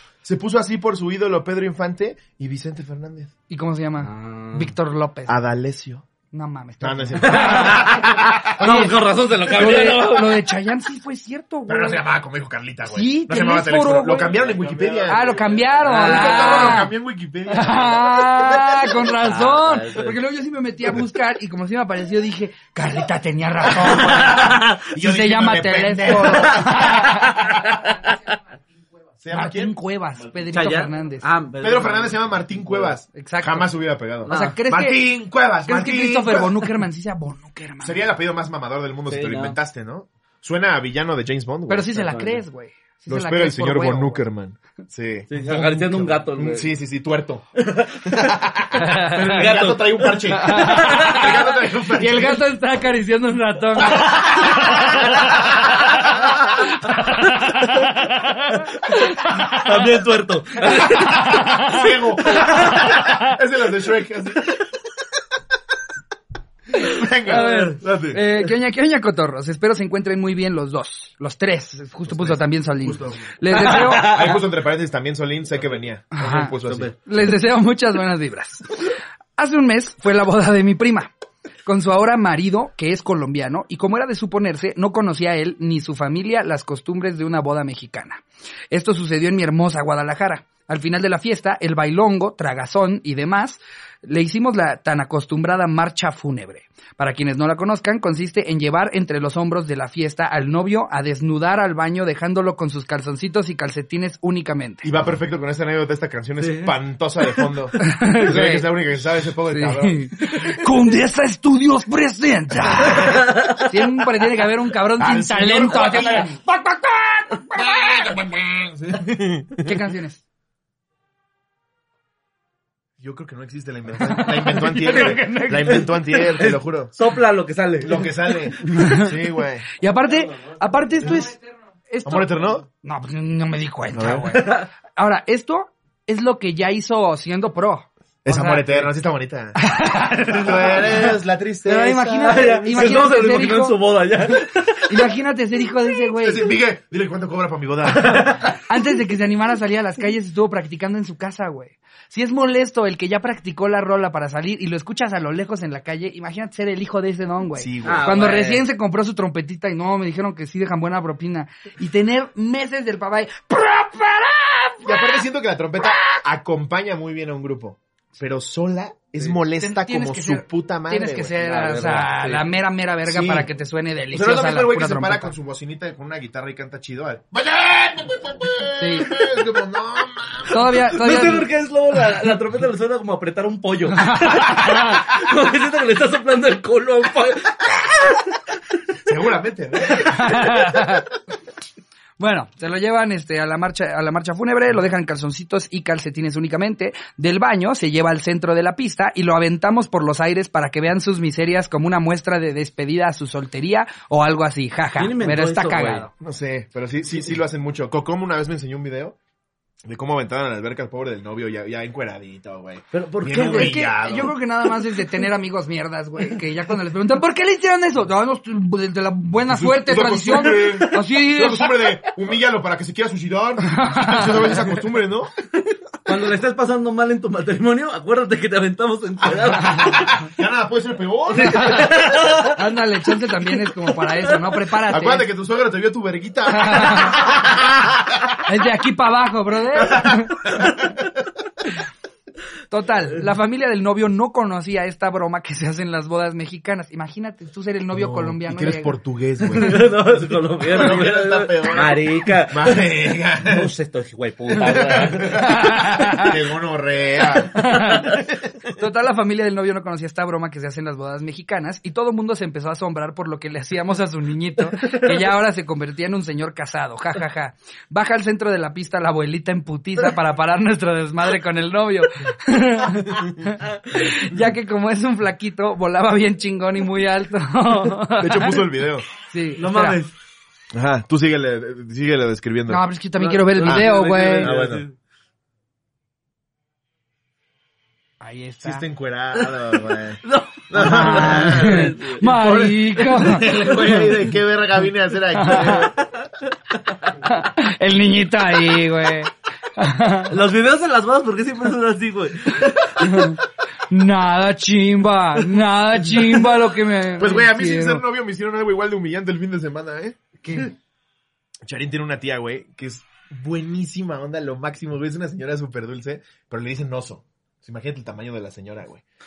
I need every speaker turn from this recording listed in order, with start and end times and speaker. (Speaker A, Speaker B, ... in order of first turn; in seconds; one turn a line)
Speaker A: 0.2-3.3
Speaker B: 3.5-5.3
Speaker C: 4.0-4.7
Speaker A: 5.3-6.0
Speaker B: 6.3-12.0
Speaker A: 6.8-8.9
Speaker C: 7.2-10.4
Speaker A: 11.7-18.8
Speaker B: 12.8-14.3
Speaker C: 14.2-16.9
Speaker B: 15.1-16.9
Speaker B: 17.5-27.5
Speaker C: 18.9-20.2
Speaker C: 23.8-24.9
Speaker A: 24.1-26.8
Speaker C: 26.2-28.2
Speaker A: 29.2-29.7
Speaker B: 29.3-31.2
Speaker C: 30.5-32.9
Speaker A: 31.6-36.7
Speaker B: 33.1-33.7
Speaker B: 34.2-35.1
Speaker C: 34.3-34.6
Speaker B: 35.6-38.0
Speaker A: 37.8-42.0
Speaker C: 39.1-39.6
Speaker B: 41.7-44.2
Speaker C: 42.0-42.4
Speaker A: 43.1-47.5
Speaker C: 45.3-46.7
Speaker C: 47.6-51.4
Speaker A: 48.0-52.4
Speaker B: 48.8-49.2
Speaker B: 50.3-59.8
Speaker A: 53.9-55.1
Speaker C: 54.2-54.9
Speaker C: 57.5-57.9
Speaker C: 58.9-63.2
Speaker B: 60.7-61.8
Speaker A: 61.6-64.6
Speaker A: 66.7-68.2
Speaker B: 66.7-74.4
Speaker C: 67.3-67.6
Speaker A: 72.1-76.9
Speaker C: 73.5-74.4
Speaker B: 76.1-76.5
Speaker C: 76.5-76.9
Speaker B: 77.0-81.1
Speaker B: 81.6-104.9
Speaker A: 104.8-110.8
Speaker C: 106.4-106.7
Speaker B: 107.8-108.7
Speaker B: 109.5-118.0
Speaker C: 113.0-113.6
Speaker A: 115.0-116.4
Speaker A: 117.5-119.7
Speaker B: 119.6-120.2
Speaker A: 123.0-126.9
Speaker B: 124.0-126.0
Speaker C: 124.8-128.4
Speaker A: 127.8-129.7
Speaker B: 128.7-129.1
Speaker B: 129.7-131.4
Speaker A: 131.0-131.3
Speaker B: 131.9-138.9
Speaker A: 132.0-132.7
Speaker A: 133.9-134.4
Speaker C: 134.3-134.7
Speaker A: 138.2-139.6
Speaker B: 139.5-141.1
Speaker A: 140.3-143.1
Speaker B: 141.7-143.8
Speaker C: 142.2-145.1
Speaker B: 144.9-146.5
Speaker A: 146.2-148.4
Speaker C: 147.9-148.5
Speaker B: 148.5-165.2
Speaker A: 157.6-158.2
Speaker C: 157.8-158.6
Speaker A: 164.8-171.4
Speaker B: 165.8-166.2
Speaker B: 169.6-175.3
Speaker C: 171.4-172.5
Speaker A: 173.1-173.5
Speaker A: 174.1-180.7
Speaker B: 178.8-179.2
Speaker B: 180.5-181.5
Speaker C: 180.8-188.4
Speaker B: 184.0-185.0
Speaker A: 189.0-191.0
Speaker B: 189.8-191.1
Speaker B: 192.2-206.1
Speaker C: 205.0-206.1
Speaker A: 206.2-209.2
Speaker A: 209.8-214.3
Speaker C: 212.9-213.8
Speaker B: 213.3-221.7
Speaker A: 219.5-225.3
Speaker B: 223.7-224.5
Speaker C: 226.1-230.3
Speaker A: 229.8-231.9
Speaker C: 231.3-232.6
Speaker B: 231.5-231.9
Speaker B: 232.5-235.3
Speaker A: 234.9-238.3
Speaker B: 236.5-237.2
Speaker B: 238.5-240.8
Speaker A: 239.8-241.1
Speaker B: 242.7-248.9
Speaker A: 247.9-249.9
Speaker C: 249.5-252.9
Speaker A: 250.6-253.7
Speaker C: 253.4-255.8
Speaker A: 254.6-258.7
Speaker B: 255.2-256.4
Speaker B: 257.4-258.2
Speaker B: 258.8-278.6
Speaker A: 278.2-279.1
Speaker B: 279.2-280.0
Speaker C: 279.6-280.1
Speaker A: 280.7-282.8
Speaker B: 282.7-284.5
Speaker C: 283.2-284.9
Speaker A: 283.6-284.8
Speaker B: 288.2-288.9
Speaker A: 288.6-295.9
Speaker C: 289.4-292.2
Speaker B: 290.8-294.1
Speaker C: 293.4-294.1
Speaker B: 295.3-295.9
Speaker C: 295.5-296.3
Speaker B: 297.2-300.3
Speaker C: 300.3-303.3
Speaker B: 302.6-308.0
Speaker A: 307.2-310.6
Speaker B: 310.4-310.7
Speaker A: 311.6-319.0